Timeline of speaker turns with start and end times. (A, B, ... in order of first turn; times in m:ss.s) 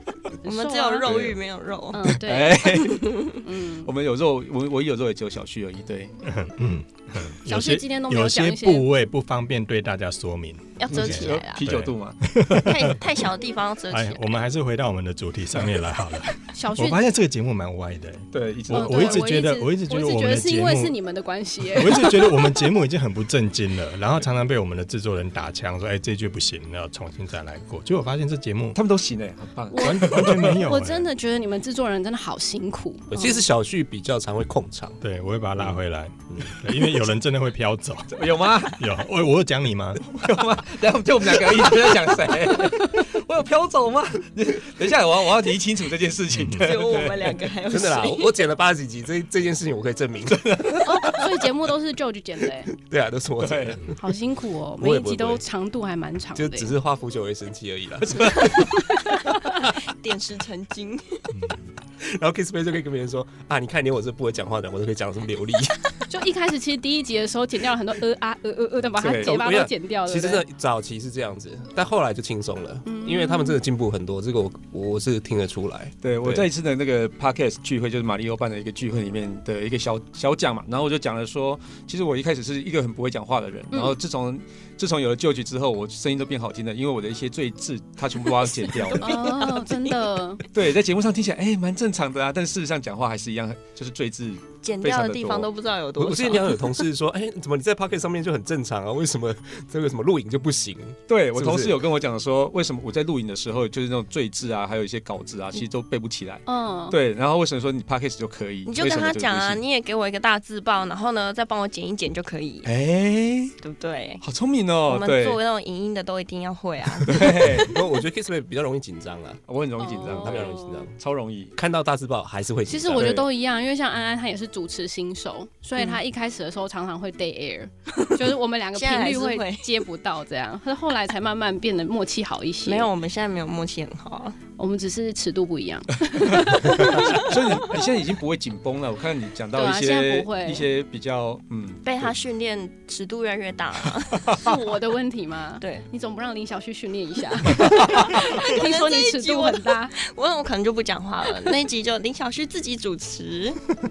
0:00.4-0:01.1 A
0:00.4-0:02.2 B
0:01.0-0:01.4 C
0:01.9-0:03.9 A
0:02.1-0:03.1 C
0:02.9-0:03.4 B
0:03.8-0:06.1 C
0:06.2-0:13.0 D
0:07.4-0:08.9 A
0:10.8-0:11.7 B
0:10.9-0:12.6 C
0:12.5-0:14.2 B
0:13.9-0:21.0 D
0:16.5-0:17.0 A
0:18.3-0:19.2 C
0:18.7-0:22.5 A
0:21.7-0:28.8 D
0:28.7-0:30.6 C
0:29.7-0:33.4 A
0:29.8-0:31.1 D
0:33.1-0:35.0 E
0:35.0-0:38.1 D
0:36.3-0:36.6 E
0:38.1-0:38.8 C
0:38.8-0:40.1 D
0:40.0-0:47.5 C
0:46.3-0:46.7 D
0:46.6-0:48.4 B
0:47.7-0:50.7 E
0:50.2-0:51.2 C
0:50.8-0:52.7 A
0:52.7-0:54.0 E
0:53.4-0:53.8 C
0:54.0-0:56.7 A
0:54.8-0:55.4 E
0:56.4-0:58.6 E
0:58.0-0:58.7 C
0:58.6-0:59.4 A
0:59.7-1:01.3 B
1:02.0-1:06.0 E
1:06.1-1:10.4 A
1:09.0-1:09.4 C
1:09.2-1:16.5 E
1:12.8-1:13.6 A
1:16.0-1:29.2 C
1:28.5-1:30.0 B
1:28.9-1:30.4 A
1:30.5-1:35.5 C
1:34.6-1:36.6 B
1:36.0-1:41.8 E
1:41.1-1:49.6 C
1:46.4-1:47.0 A
1:48.6-1:52.7 B
1:52.6-1:53.6 C
1:53.6-1:54.2 B
1:54.2-1:55.4 C
1:54.8-1:57.2 B
1:57.0-1:57.8 C
1:57.2-1:59.4 E
1:59.5-2:01.5 C
1:59.8-2:00.9 A
2:00.0-2:01.0 E
2:01.6-2:03.2 E
2:02.7-2:12.9 A
2:02.9-2:03.3 C
2:08.0-2:09.8 B
2:12.6-2:14.4 B
2:14.6-2:17.8 A
2:16.6-2:22.1 C
2:16.9-2:17.3 B
2:19.5-2:20.6 A
2:21.8-2:24.4 B
2:24.3-2:29.9 A
2:25.6-2:25.8 B
2:28.0-2:33.6 B